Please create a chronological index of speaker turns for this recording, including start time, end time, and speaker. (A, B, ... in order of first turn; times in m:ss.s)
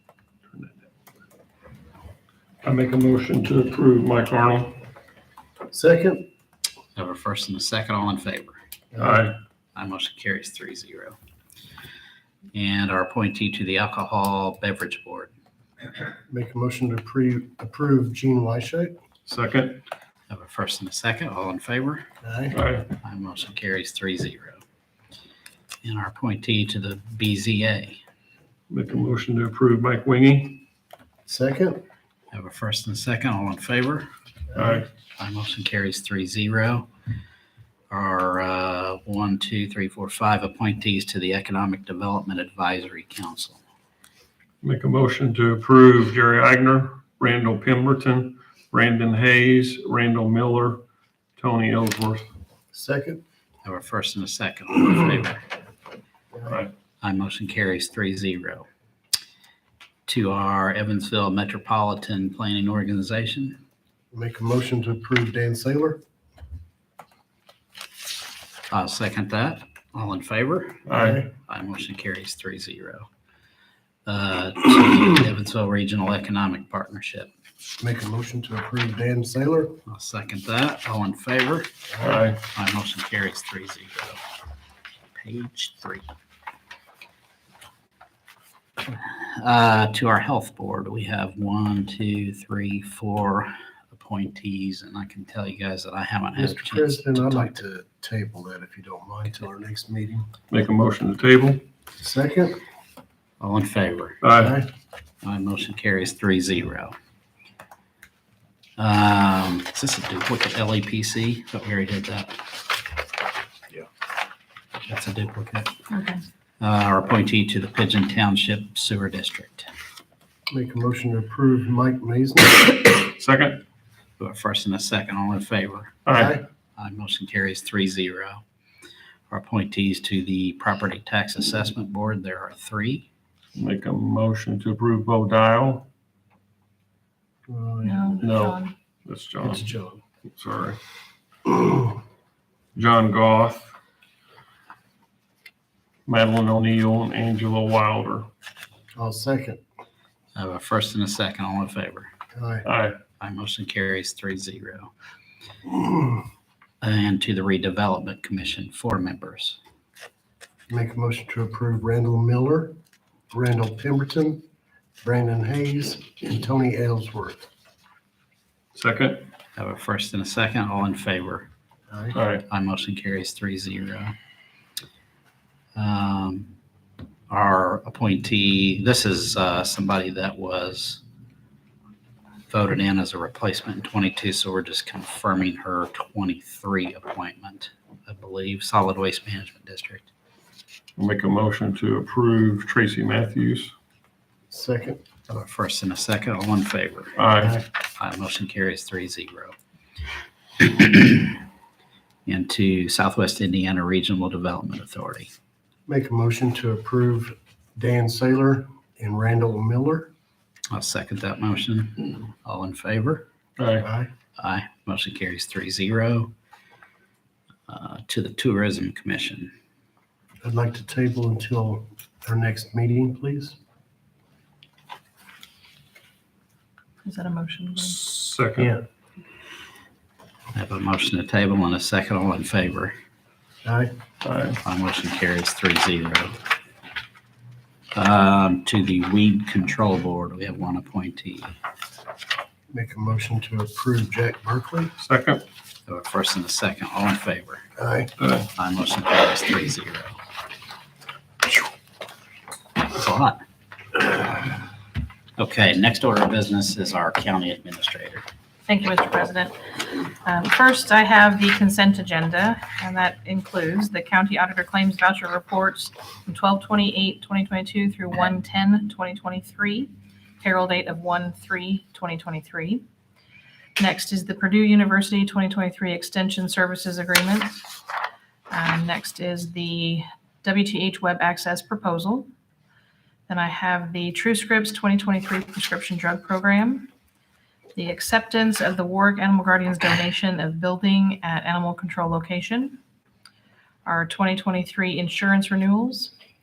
0:02.6-0:04.8 A
0:05.7-0:06.3 B
0:07.0-0:08.6 C
0:08.9-0:09.3 B
0:09.0-0:09.4 A
0:09.8-0:11.2 C
0:12.5-0:15.3 C
0:16.3-0:19.0 B
0:19.3-0:19.8 A
0:20.3-0:22.1 C
0:22.2-0:22.6 B
0:22.5-0:22.9 A
0:23.0-0:24.6 C
0:25.8-0:28.0 C
0:28.7-0:30.6 A
0:31.3-0:31.8 B
0:32.3-0:34.1 C
0:34.6-0:34.9 A
0:35.2-0:36.9 C
0:37.9-0:43.6 C
0:44.6-0:50.8 A
0:51.4-0:52.3 A
0:52.7-0:53.2 B
0:53.6-0:55.4 C
0:57.0-0:58.7 C
1:00.1-1:03.6 C
1:04.1-1:06.0 B
1:08.7-1:13.1 C
1:10.9-1:11.2 A
1:10.9-1:11.3 B
1:14.1-1:17.3 C
1:17.8-1:19.8 B
1:19.9-1:24.2 C
1:22.0-1:22.2 B
1:22.0-1:22.4 A
1:25.1-1:26.0 C
1:29.0-1:37.6 C
1:36.4-1:40.3 B
1:40.5-1:41.6 A
1:42.0-1:42.6 B
1:43.4-1:44.2 C
1:44.2-1:44.6 A
1:44.4-1:44.7 B
1:45.2-1:46.9 C
1:48.8-1:52.4 C
1:54.9-1:55.8 C
1:55.9-1:56.2 D
1:56.6-1:59.7 C
2:00.5-2:02.7 B
2:03.1-2:03.6 A
2:04.2-2:06.0 C
2:06.1-2:06.4 A
2:06.1-2:06.4 B
2:06.8-2:08.4 C
2:09.3-2:13.1 C
2:13.6-2:15.9 A
2:17.5-2:18.4 B
2:17.8-2:18.7 D
2:18.2-2:19.6 A
2:19.4-2:20.0 B
2:20.4-2:20.8 A
2:21.5-2:21.8 B
2:22.8-2:23.7 A
2:26.1-2:28.3 A
2:29.0-2:29.6 B
2:30.4-2:32.1 C
2:32.3-2:32.7 B
2:32.6-2:33.0 A
2:33.2-2:34.9 C
2:35.7-2:36.2 B
2:36.8-2:39.6 C
2:40.7-2:42.8 B
2:43.3-2:44.4 B
2:45.0-2:47.4 B
2:48.8-2:49.3 A
2:49.6-2:51.5 C
2:51.9-2:52.2 B
2:52.1-2:52.4 A
2:52.5-2:54.2 C
2:55.8-2:56.5 C
2:57.3-3:01.0 C
3:02.5-3:10.1 C
3:11.0-3:13.7 A
3:14.5-3:15.0 B
3:15.3-3:17.2 C
3:17.2-3:17.6 A
3:18.0-3:19.6 C
3:20.6-3:21.4 C
3:22.3-3:25.3 C
3:25.9-3:30.1 B
3:30.7-3:33.3 C
3:33.6-3:33.9 A
3:33.8-3:34.1 B
3:34.4-3:36.3 C
3:37.7-3:39.5 C
3:40.4-3:43.6 B
3:47.0-3:48.0 D
3:47.8-3:48.7 A
3:48.6-3:48.9 B
3:50.5-3:53.0 C
3:53.6-3:53.9 B
3:54.2-3:54.6 A
3:54.6-3:56.4 C
3:57.9-4:01.5 C
4:02.7-4:04.9 B
4:05.0-4:05.4 A
4:05.9-4:07.6 C
4:07.8-4:08.1 B
4:08.2-4:08.5 A
4:08.5-4:10.2 C
4:12.8-4:13.4 C
4:15.4-4:18.3 C
4:18.7-4:32.8 D
4:33.8-4:37.7 D
4:38.5-4:42.3 D
4:43.3-4:46.9 D
4:47.8-4:52.8 D
4:53.8-4:56.1 D